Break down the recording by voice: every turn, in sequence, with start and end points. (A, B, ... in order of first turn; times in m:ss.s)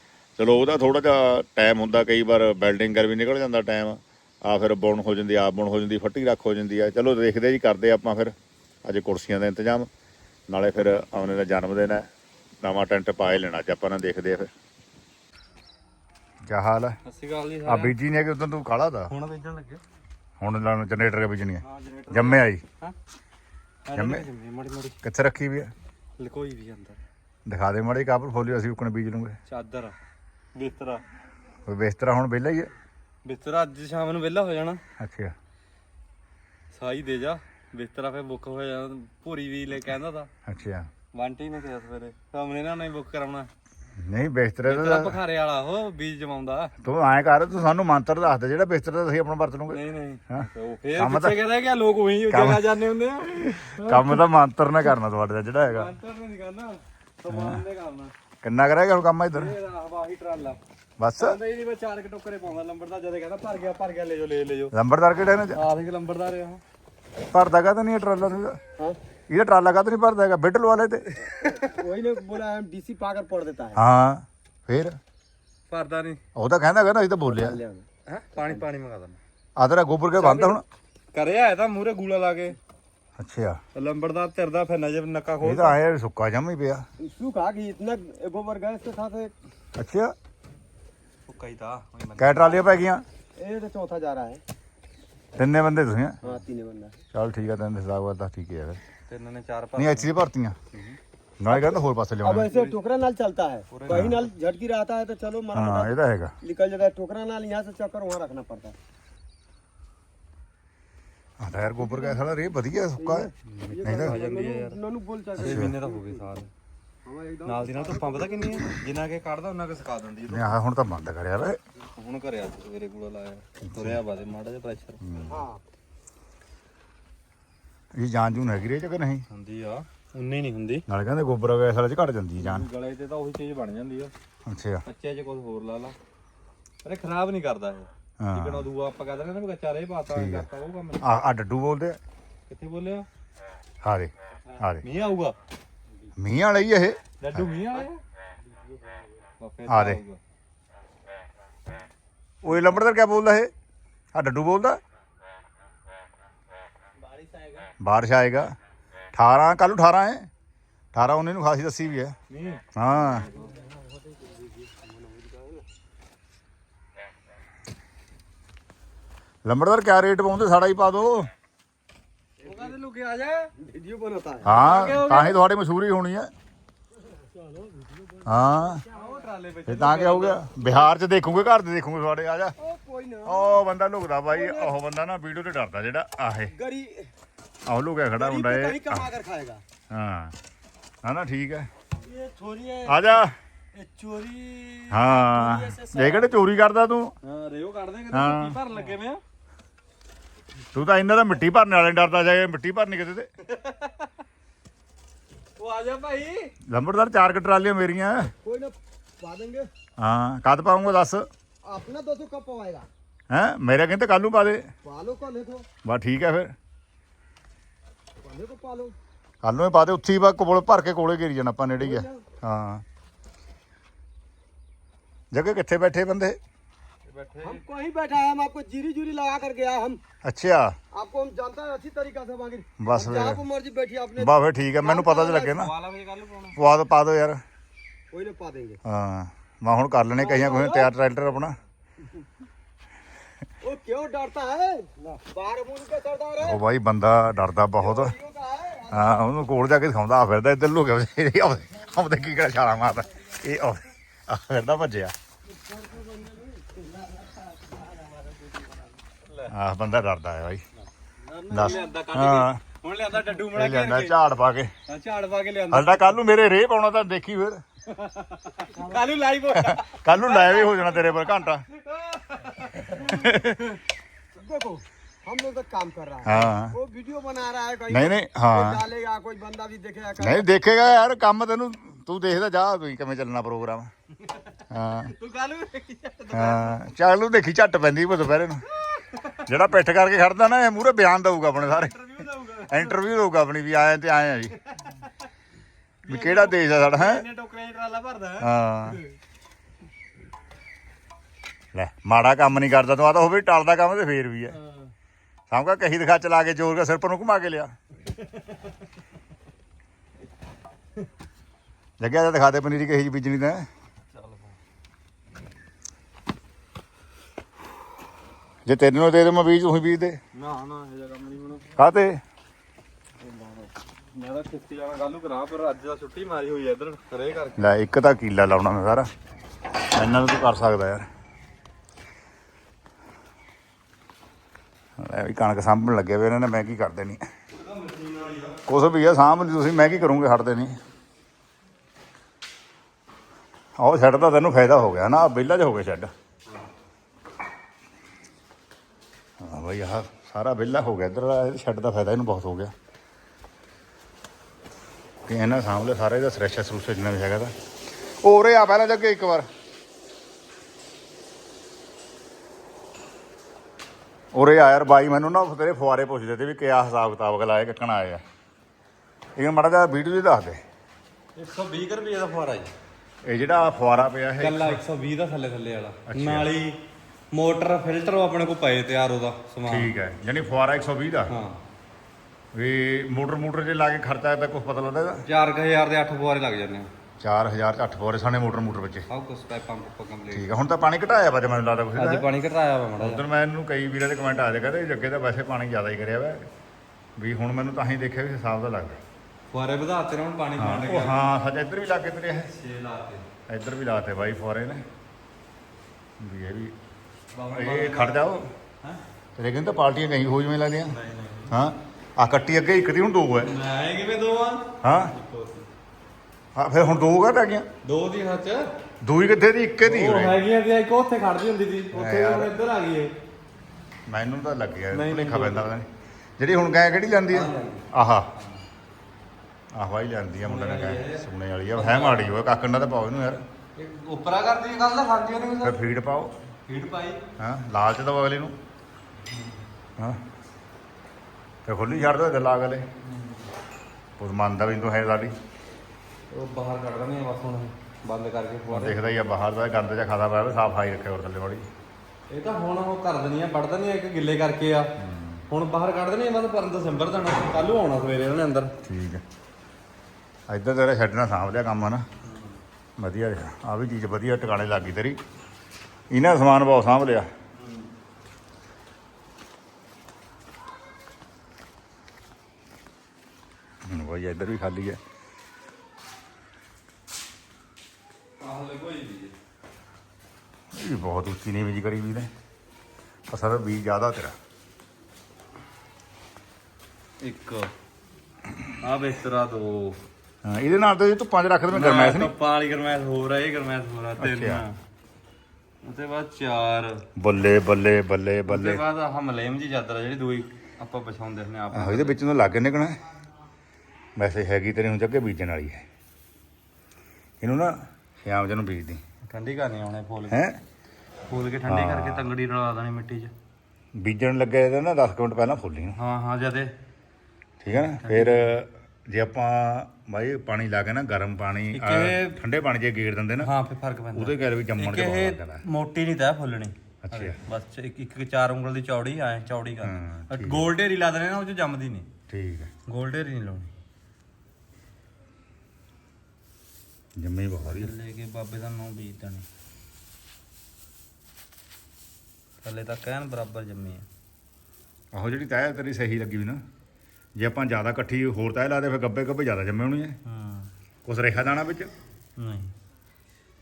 0:00.4-0:09.9 A
0:10.5-0:12.1 A
0:12.6-0:14.5 A
0:16.5-0:17.0 A
0:17.0-0:17.9 B
0:17.7-0:19.1 A
0:19.1-0:19.8 B
0:20.4-0:22.6 A
0:21.6-0:23.0 B
0:23.9-0:25.0 B
0:23.9-0:24.3 A
0:25.0-0:25.7 A
0:26.2-0:27.0 B
0:27.5-0:29.4 A
0:29.5-0:29.9 B
0:30.6-0:31.0 B
0:31.7-0:32.7 A
0:33.2-0:34.8 B
0:35.0-0:35.4 A
0:36.7-0:40.3 B
0:40.4-0:40.9 A
0:41.1-0:43.5 B
0:44.0-0:45.2 A
0:44.7-0:46.7 B
0:46.8-0:51.4 A
0:49.7-0:54.2 B
0:52.3-0:52.7 A
0:53.6-0:55.9 A
0:55.6-0:58.1 B
0:57.3-0:57.6 A
0:58.4-0:59.6 A
0:59.3-1:00.6 B
1:01.0-1:01.4 A
1:01.2-1:04.7 B
1:04.7-1:05.6 A
1:05.6-1:06.6 B
1:07.3-1:08.6 A
1:09.3-1:11.1 A
1:11.4-1:11.7 B
1:11.4-1:13.8 C
1:13.8-1:15.0 A
1:15.7-1:16.2 B
1:16.4-1:17.6 A
1:17.3-1:18.6 C
1:18.1-1:19.2 B
1:19.6-1:20.6 A
1:20.2-1:20.6 C
1:21.1-1:22.6 B
1:23.2-1:23.6 A
1:23.8-1:25.8 B
1:25.4-1:26.8 A
1:27.0-1:29.3 C
1:29.8-1:30.1 A
1:31.3-1:32.7 B
1:32.2-1:33.0 A
1:33.4-1:34.4 C
1:35.4-1:36.2 A
1:36.2-1:37.0 C
1:37.1-1:38.8 A
1:39.1-1:40.1 B
1:39.8-1:40.6 A
1:41.4-1:42.5 A
1:42.2-1:48.8 C
1:42.4-1:42.8 B
1:43.7-1:44.3 B
1:43.9-1:44.2 A
1:45.5-1:46.4 A
1:51.4-1:53.3 A
1:51.8-1:52.2 C
1:53.0-1:56.2 C
1:53.5-1:54.8 B
1:53.8-1:54.2 A
1:55.4-1:56.5 B
1:55.4-1:55.8 A
1:57.0-1:58.4 C
1:57.4-2:00.5 B
2:00.3-2:01.6 A
2:02.0-2:05.0 B
2:03.6-2:04.0 A
2:05.0-2:05.5 A
2:05.3-2:05.6 C
2:07.9-2:09.2 A
2:09.3-2:10.9 B
2:10.9-2:12.7 A
2:12.4-2:14.1 B
2:14.5-2:14.8 A
2:14.9-2:16.0 B
2:16.8-2:21.1 B
2:18.2-2:18.7 A
2:20.1-2:20.5 A
2:21.0-2:22.0 A
2:22.5-2:23.1 B
2:23.8-2:24.9 A
2:24.5-2:25.4 B
2:26.2-2:27.5 A
2:27.2-2:28.0 B
2:29.4-2:30.2 B
2:29.7-2:30.0 A
2:32.4-2:32.8 B
2:32.4-2:33.5 A
2:34.1-2:34.8 A
2:37.8-2:38.6 A
2:39.1-2:40.3 A
2:40.9-2:42.2 A
2:42.3-2:42.6 B
2:42.8-2:43.3 A
2:43.2-2:45.6 C
2:49.4-2:51.3 A
2:52.4-2:52.7 C
2:52.4-2:53.5 B
2:53.6-2:54.6 C
2:54.4-2:56.3 A
2:54.4-2:55.4 B
2:57.1-2:59.2 C
2:58.2-2:58.8 A
2:58.9-3:00.8 B
2:59.7-3:02.5 A
3:02.6-3:03.6 C
3:03.2-3:06.5 A
3:04.3-3:04.7 C
3:06.5-3:07.1 C
3:07.7-3:09.1 A
3:08.2-3:09.6 C
3:09.9-3:10.4 A
3:11.0-3:11.7 A
3:12.1-3:13.0 B
3:12.9-3:13.4 A
3:13.7-3:15.8 B
3:14.9-3:17.1 A
3:17.2-3:19.2 B
3:18.1-3:18.6 A
3:20.7-3:23.3 A
3:23.4-3:24.1 B
3:25.6-3:26.5 B
3:26.7-3:28.3 A
3:28.4-3:29.7 C
3:30.0-3:31.3 A
3:31.6-3:32.9 C
3:33.3-3:34.7 A
3:34.8-3:35.7 C
3:35.8-3:36.5 A
3:38.2-3:38.9 C
3:39.4-3:42.8 A
3:41.8-3:42.2 C
3:45.3-3:46.4 A
3:47.1-3:47.6 B
3:47.4-3:50.0 C
3:50.2-3:50.8 A
3:50.9-3:55.5 C
3:52.8-3:53.4 A
3:54.2-3:55.7 A
3:55.0-3:56.6 B
3:56.6-3:57.4 A
3:58.1-3:58.8 C
3:58.8-4:01.6 A
4:00.2-4:00.9 C
4:03.6-4:06.6 C
4:06.4-4:08.1 A
4:07.8-4:09.2 C
4:08.9-4:15.2 A
4:15.6-4:18.8 C
4:19.3-4:19.5 B
4:19.5-4:20.6 A
4:21.2-4:24.2 B
4:21.5-4:22.6 A
4:23.5-4:24.7 A
4:24.9-4:26.2 B
4:25.7-4:27.6 A
4:27.9-4:31.2 B
4:28.7-4:29.0 C
4:29.6-4:31.6 A
4:31.7-4:33.2 B
4:33.0-4:33.7 A
4:34.4-4:40.5 C
4:36.2-4:36.7 A
4:37.9-4:38.8 A
4:40.2-4:43.9 A
4:44.2-4:44.6 B
4:44.7-4:45.1 A
4:45.1-4:46.8 B
4:46.3-4:48.6 A
4:48.7-4:49.4 B
4:49.4-4:52.0 A
4:51.7-4:53.0 B
4:52.7-4:54.6 A
4:56.0-4:59.0 B
4:56.1-4:57.2 A
4:58.4-4:59.0 A
5:01.7-5:04.6 A
5:05.5-5:07.7 A
5:12.0-5:13.7 A
5:14.1-5:14.6 B
5:18.6-5:20.2 A
5:20.3-5:21.7 B
5:21.8-5:22.2 A
5:23.2-5:27.7 B
5:27.6-5:29.1 A
5:29.9-5:31.1 A
5:35.0-5:37.2 A
5:37.5-5:38.6 B
5:38.7-5:40.8 A
5:43.8-5:46.1 A
5:49.4-5:52.7 A
5:55.2-5:57.5 A
5:58.2-5:59.5 A
6:04.3-6:08.2 A
6:09.4-6:10.6 A
6:11.4-6:12.7 B
6:13.2-6:14.8 A
6:14.4-6:16.8 B
6:16.1-6:16.5 A
6:17.3-6:19.9 B
6:19.6-6:21.4 A
6:21.3-6:21.6 B
6:22.5-6:25.2 A
6:25.2-6:26.9 B
6:27.2-6:29.1 A
6:29.1-6:30.5 B
6:30.3-6:32.3 A
6:32.0-6:33.2 B
6:33.0-6:36.5 A
6:37.2-6:39.0 A
6:39.5-6:41.2 B
6:40.6-6:42.5 A
6:42.5-6:43.2 B
6:43.5-6:44.9 A
6:46.2-6:46.8 A
6:47.3-6:48.2 B
6:47.5-6:48.5 A
6:49.4-6:51.0 A
6:50.9-6:51.5 B
6:51.5-6:53.5 A
6:53.4-6:55.7 B
6:54.8-6:55.1 A
6:56.5-6:57.7 A
6:57.8-6:58.6 B
6:59.0-7:00.4 A
6:59.8-7:03.1 B
7:01.9-7:02.5 A
7:04.1-7:05.9 A
7:04.9-7:05.7 B
7:06.4-7:08.3 A
7:07.3-7:08.6 B
7:09.8-7:13.4 A
7:10.4-7:12.3 B
7:13.8-7:15.8 B
7:15.6-7:16.3 A
7:16.7-7:17.2 B
7:17.4-7:18.6 A
7:21.6-7:22.9 A
7:23.0-7:23.4 B
7:24.2-7:25.4 A
7:26.3-7:29.0 B
7:28.7-7:31.7 A
7:32.3-7:34.9 B
7:35.0-7:35.4 A
7:35.5-7:38.7 B
7:38.8-7:39.2 A
7:40.5-7:42.1 A
7:42.2-7:42.5 B
7:43.0-7:45.2 A
7:46.1-7:47.3 A
7:47.6-7:47.9 B
7:53.8-7:55.0 A
7:58.4-7:59.3 B
8:00.7-8:02.3 A
8:03.3-8:04.4 A
8:07.2-8:07.7 B
8:08.8-8:10.0 B
8:10.4-8:12.3 A
8:11.7-8:14.8 B
8:14.2-8:14.6 A
8:15.8-8:17.0 B
8:17.2-8:18.8 A
8:18.5-8:22.2 B
8:21.7-8:23.0 A
8:24.2-8:25.8 A
8:27.4-8:29.0 A
8:29.2-8:30.4 B
8:30.3-8:30.6 A
8:31.3-8:33.3 B
8:31.7-8:32.3 A
8:34.0-8:36.0 A
8:36.0-8:36.7 B
8:37.6-8:43.5 A
8:37.9-8:38.5 B
8:41.7-8:42.4 B
8:43.4-8:52.1 B
8:44.1-8:45.6 A
8:47.0-8:47.4 A
8:49.8-8:50.7 A
8:52.3-8:52.7 A
8:52.9-8:53.7 B
8:57.2-8:57.9 A
8:57.6-8:59.5 B
9:02.6-9:04.1 B
9:05.1-9:06.6 A
9:07.4-9:10.2 A
9:10.2-9:10.7 B
9:11.0-9:11.9 A
9:12.4-9:12.7 B